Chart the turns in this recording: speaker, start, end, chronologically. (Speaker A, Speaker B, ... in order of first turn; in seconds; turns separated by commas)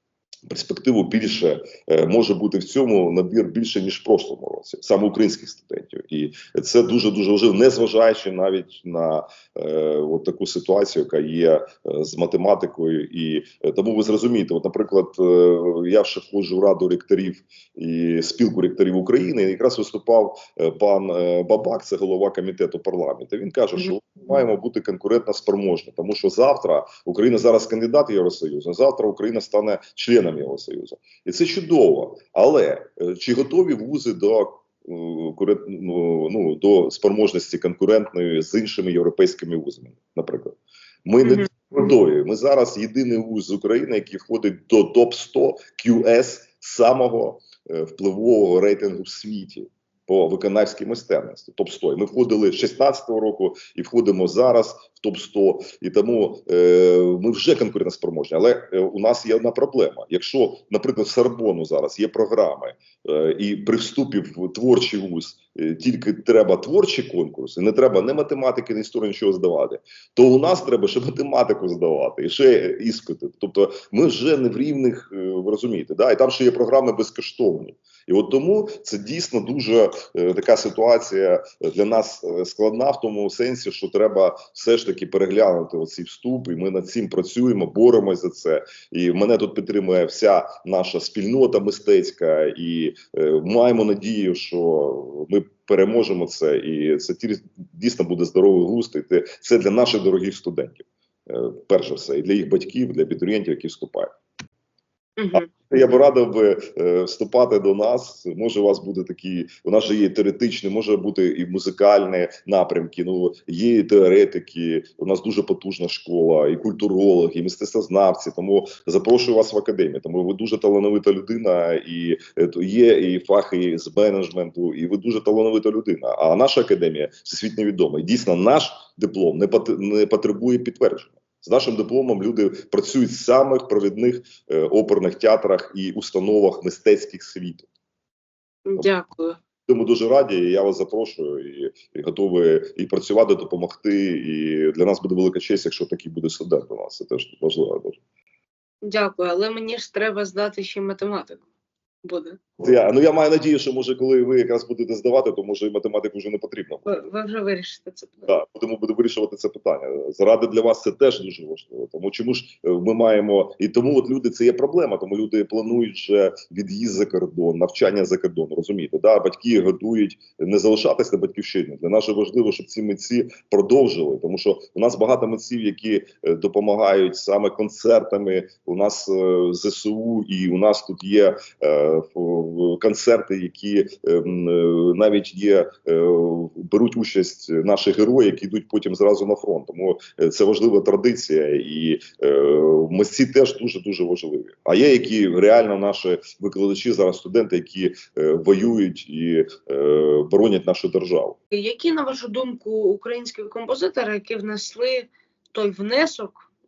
Speaker A: 0.5-104.1, Speaker B: 105.2-105.5, Speaker A: 105.3-137.7, Speaker B: 138.7-139.4, Speaker A: 139.7-148.0, Speaker B: 148.8-151.4, Speaker B: 152.0-152.4, Speaker A: 152.6-157.0, Speaker B: 156.8-158.3, Speaker A: 158.3-201.4, Speaker B: 201.5-206.5